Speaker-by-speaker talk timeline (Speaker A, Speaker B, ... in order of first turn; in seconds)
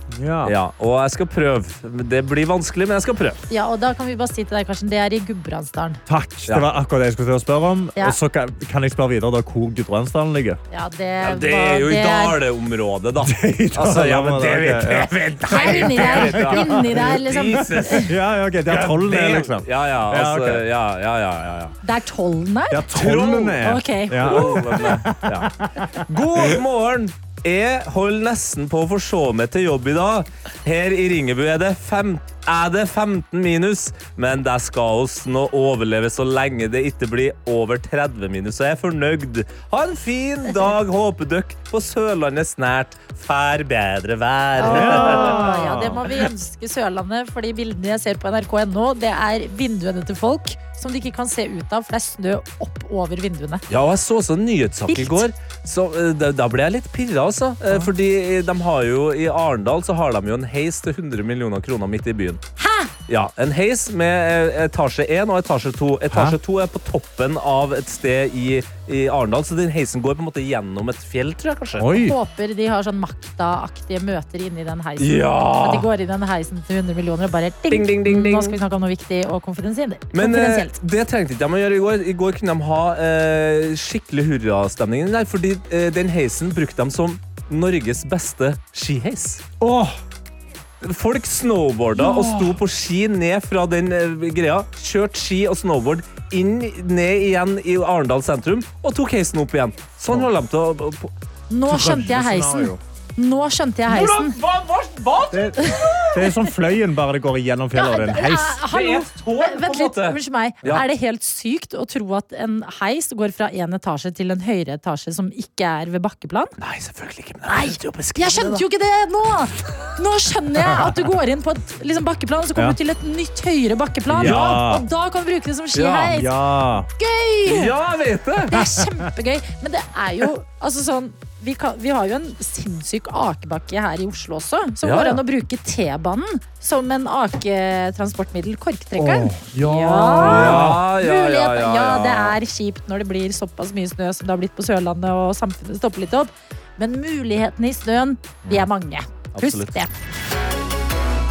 Speaker A: 0.1-0.5, 6.1-10.6, 13.2-20.6, 22.7-26.6, 44.6-46.1, 66.1-66.4, 71.8-72.2, 89.6-90.0, 92.0-92.6, 101.7-102.8, 105.3-108.6, 124.1-124.8, 126.1-126.9, 128.6-129.0, 139.0-140.8
Speaker B: 0.4-3.4, 11.2-18.1, 18.7-21.8, 22.9-23.6, 24.2-45.4, 53.7-62.4, 63.1-71.9, 75.0-75.9, 77.7-78.6, 80.1-89.5, 90.8-101.1, 103.9-106.0, 108.7-110.8, 116.6-118.6, 124.2-124.6, 125.7-126.2, 127.4-128.6, 134.8-135.2, 140.2-142.4, 149.3-149.7
Speaker C: 3.5-6.0, 10.7-12.4, 15.4-18.1, 21.8-22.8, 23.6-24.6, 44.6-53.6, 54.9-55.2, 62.6-62.9, 72.0-80.7, 101.5-104.3, 105.6-106.5, 107.7-116.5, 117.5-126.3, 127.0-127.7, 128.5-149.9